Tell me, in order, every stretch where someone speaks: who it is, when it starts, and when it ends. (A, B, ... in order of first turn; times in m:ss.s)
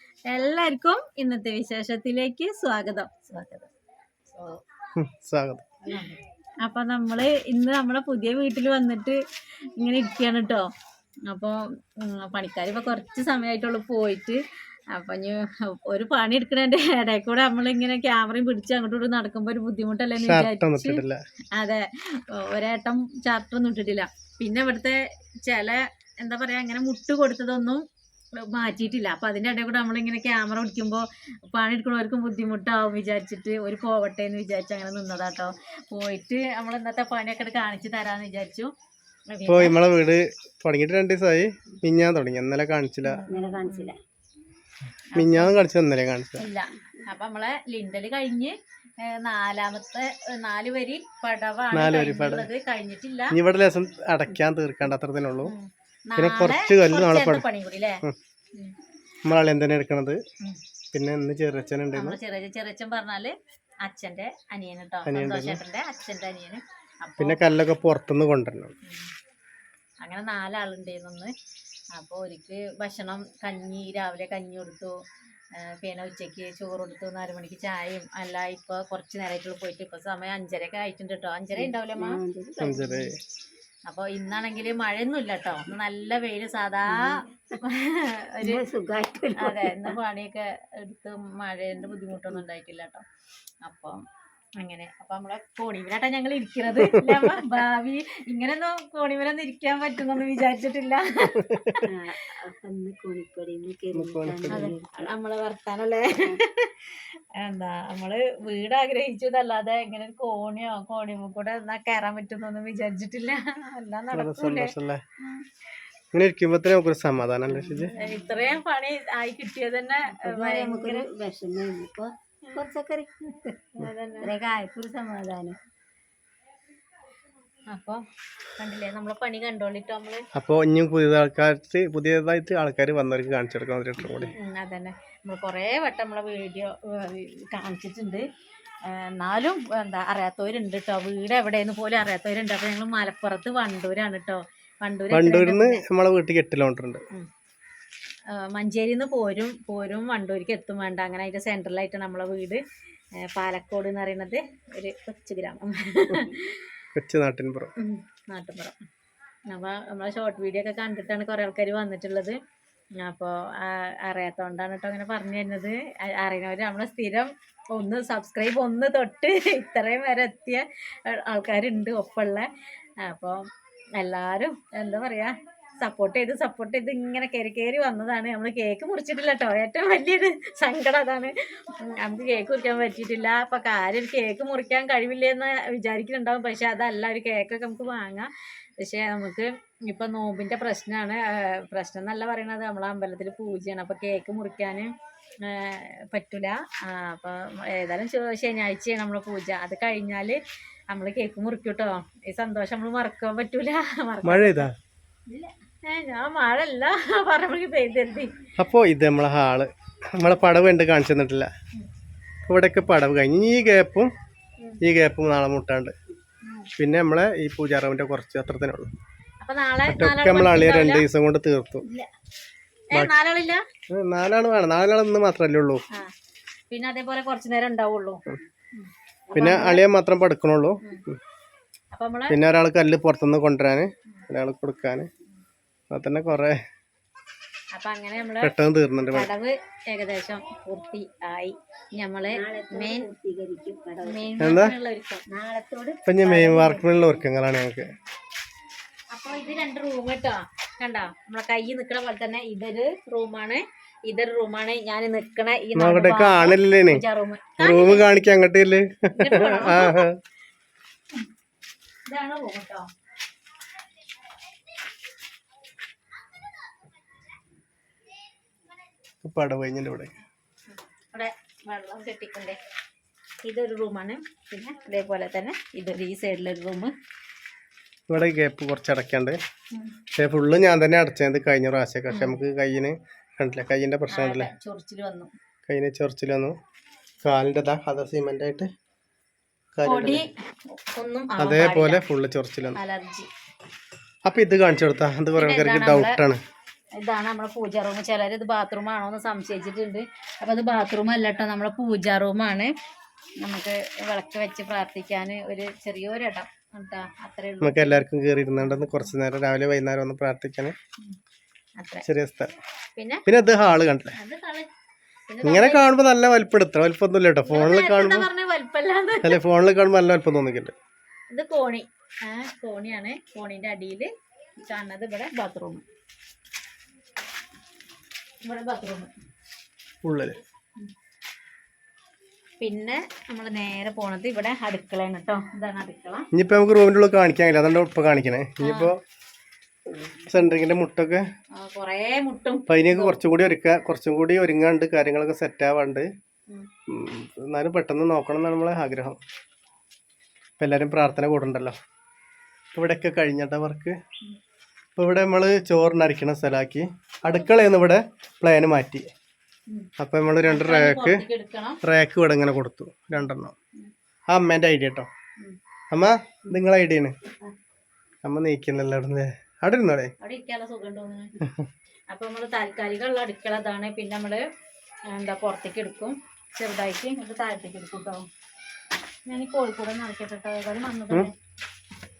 0:00.3-0:03.3 A
0:03.3-0:03.6 B
0:05.0-0:05.6 C
0:05.9-0:09.2 A
0:09.8-0:10.7 A
0:11.3-0:14.4 A
0:14.9-0:21.0 A
0:20.2-0:21.2 C
0:21.5-0:27.8 A
0:28.4-0:38.7 A
0:39.3-0:39.7 A
0:39.5-0:43.3 C
0:43.0-0:43.9 A
0:43.3-0:44.0 B
0:45.1-0:45.6 A
0:45.2-0:46.4 C
0:46.4-0:53.3 A
0:51.7-0:52.5 C
0:53.3-0:55.5 C
0:55.4-0:58.0 A
0:56.2-0:57.4 C
0:59.2-1:00.2 C
1:00.9-1:02.2 C
1:01.9-1:07.4 A
1:05.0-1:05.6 C
1:07.2-1:08.7 C
1:10.0-1:11.3 A
1:11.9-1:14.9 A
1:15.6-1:22.2 A
1:21.5-1:23.1 B
1:22.6-1:23.2 C
1:23.9-1:28.6 A
1:26.9-1:27.2 B
1:28.4-1:30.0 B
1:29.4-1:33.0 A
1:33.6-1:34.0 A
1:34.6-1:41.9 A
1:41.4-1:41.8 C
1:41.9-1:44.9 B
1:43.9-1:44.7 C
1:44.5-1:54.7 A
1:54.1-1:55.0 C
1:56.1-1:57.9 C
1:57.5-1:58.3 B
1:58.0-2:01.0 A
2:00.1-2:05.6 B
2:03.8-2:04.3 A
2:07.7-2:08.0 A
2:08.6-2:10.2 A
2:10.3-2:14.3 C
2:14.0-2:14.3 B
2:14.4-2:18.2 A
2:18.8-2:25.8 A
2:25.1-2:27.0 C
2:28.3-2:32.6 A
2:33.2-2:36.6 A
2:37.0-2:37.7 C
2:37.8-2:38.8 A
2:39.4-2:42.4 A
2:43.0-2:52.5 A
2:53.0-3:08.3 A
3:08.8-3:14.9 A
3:15.4-3:20.4 A
3:20.9-3:24.7 A
3:24.2-3:24.7 C
3:25.8-3:28.3 A
3:28.6-3:31.5 C
3:32.5-3:34.1 C
3:34.8-3:35.9 C
3:36.8-3:38.9 C
3:39.4-3:41.0 A
3:39.9-3:41.8 C
3:42.9-3:43.6 A
3:43.9-3:45.8 C
3:46.7-3:48.2 A
3:49.3-3:49.8 A
3:49.3-3:51.2 C
3:51.9-3:52.4 A
3:52.3-3:55.1 C
3:55.9-3:56.6 C
3:57.7-3:58.5 A
3:58.4-3:59.3 C
3:59.1-4:03.1 A
4:02.3-4:04.5 B
4:04.0-4:05.2 A
4:04.4-4:04.7 C
4:05.3-4:07.2 B
4:06.0-4:07.9 C
4:09.1-4:18.1 A
4:15.8-4:17.0 C
4:17.6-4:20.2 C
4:19.2-4:20.1 A
4:22.0-4:22.8 A
4:29.2-4:30.1 C
4:31.1-4:32.6 A
4:33.4-4:36.9 A
4:38.1-4:39.4 C
4:40.2-4:44.5 C
4:42.1-4:42.4 A
4:44.1-4:45.3 A
4:45.7-4:46.5 C
4:47.2-4:48.7 C
4:49.7-4:50.2 C
4:49.8-4:52.0 A
4:51.4-4:52.8 C
4:52.7-4:53.3 A
4:54.2-4:56.4 C
4:55.4-4:56.2 A
4:57.0-5:02.7 A
5:03.4-5:08.0 A
5:07.6-5:10.7 C
5:08.6-5:09.0 A
5:11.8-5:12.0 A
5:12.0-5:12.5 C
5:13.0-5:13.2 A
5:13.3-5:14.1 C
5:14.1-5:14.7 A
5:15.3-5:15.8 A
5:15.4-5:18.3 C
5:17.4-5:19.4 A
5:19.2-5:20.7 C
5:21.3-5:25.8 A
5:28.4-5:29.1 A
5:30.0-5:30.4 C
5:32.6-5:36.3 A
5:36.3-5:39.0 C
5:38.6-5:38.9 A
5:40.0-5:41.2 C
5:41.6-5:43.2 A
5:42.7-5:46.1 C
5:46.9-5:49.2 C
5:50.6-5:51.8 C
5:52.7-5:54.0 C
5:55.0-5:59.1 C
6:00.0-6:01.2 C
6:00.5-6:01.8 A
6:01.8-6:03.5 C
6:04.3-6:05.1 C
6:05.9-6:07.2 C
6:08.2-6:10.1 C
6:10.2-6:11.3 A
6:12.1-6:14.4 A
6:15.1-6:18.2 A
6:19.3-6:21.3 A